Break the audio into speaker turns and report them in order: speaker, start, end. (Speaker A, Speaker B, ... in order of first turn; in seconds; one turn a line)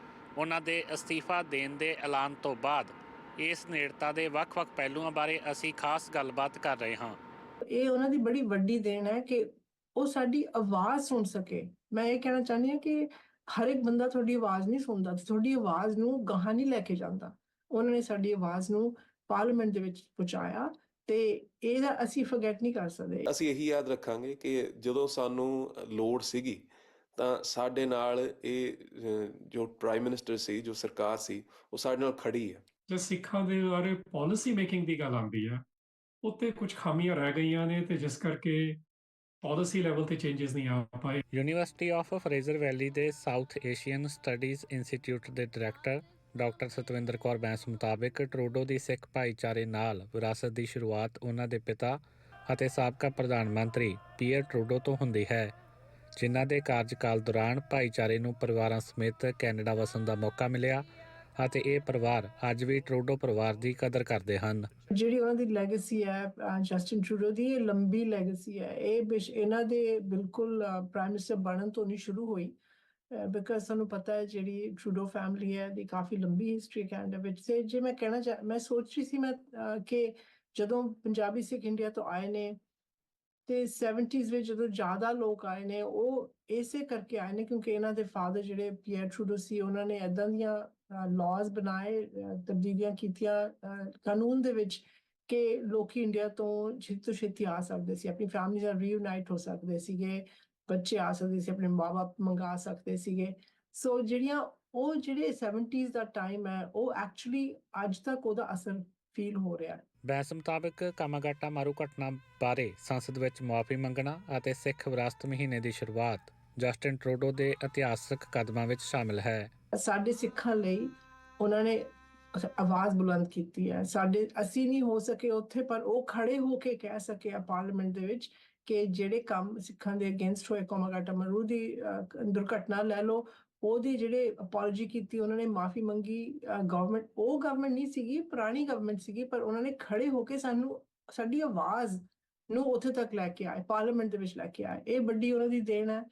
Speaker A: 0.4-7.2
Speaker B: 7.7-23.3
Speaker C: 23.3-32.6
Speaker D: 32.9-35.6
Speaker D: 36.2-38.8
Speaker D: 39.4-41.2
Speaker A: 41.3-55.5
Speaker A: 56.2-60.8
Speaker A: 61.4-64.7
Speaker B: 64.9-72.5
Speaker B: 73.1-82.6
Speaker B: 83.5-109.8
Speaker A: 110.1-119.5
Speaker B: 119.7-146.0